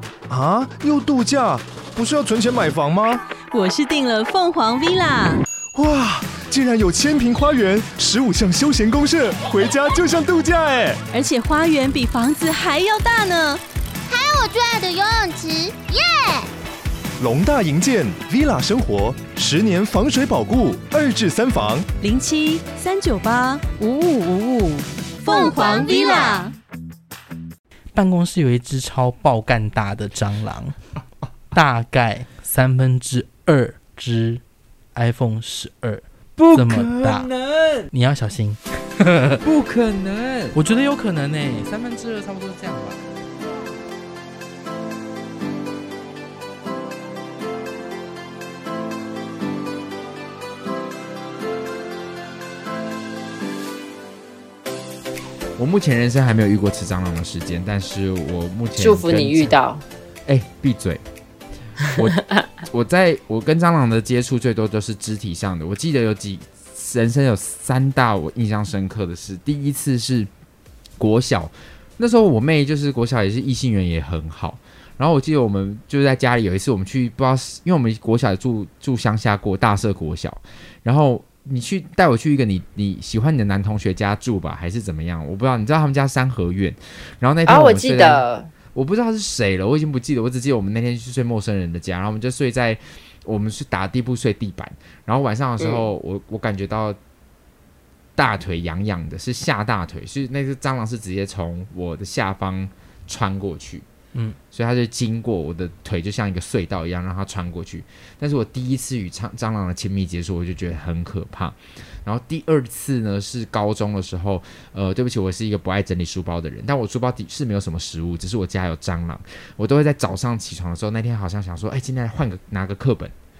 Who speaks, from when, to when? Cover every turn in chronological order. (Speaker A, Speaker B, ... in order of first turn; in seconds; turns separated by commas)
Speaker A: 0.3-3.2, Speaker B: 3.5-5.4, Speaker A: 5.7-11.0, Speaker B: 11.1-13.6, Speaker C: 14.1-16.5, Speaker A: 17.2-21.9, Speaker B: 22.0-26.5, Speaker C: 25.3-26.5, Speaker D: 27.9-30.8, Speaker D: 31.5-34.4, Speaker D: 35.0-36.0, Speaker E: 36.4-37.9, Speaker D: 36.5-37.3, Speaker D: 37.9-39.4, Speaker E: 39.4-40.6, Speaker D: 40.5-43.0, Speaker E: 55.6-59.6, Speaker F: 58.8-59.8, Speaker E: 60.3-61.0, Speaker E: 61.9-70.3, Speaker E: 71.0-97.0, Speaker F: 87.5-88.5, Speaker F: 95.6-95.9, Speaker E: 98.2-103.9, Speaker E: 104.5-123.1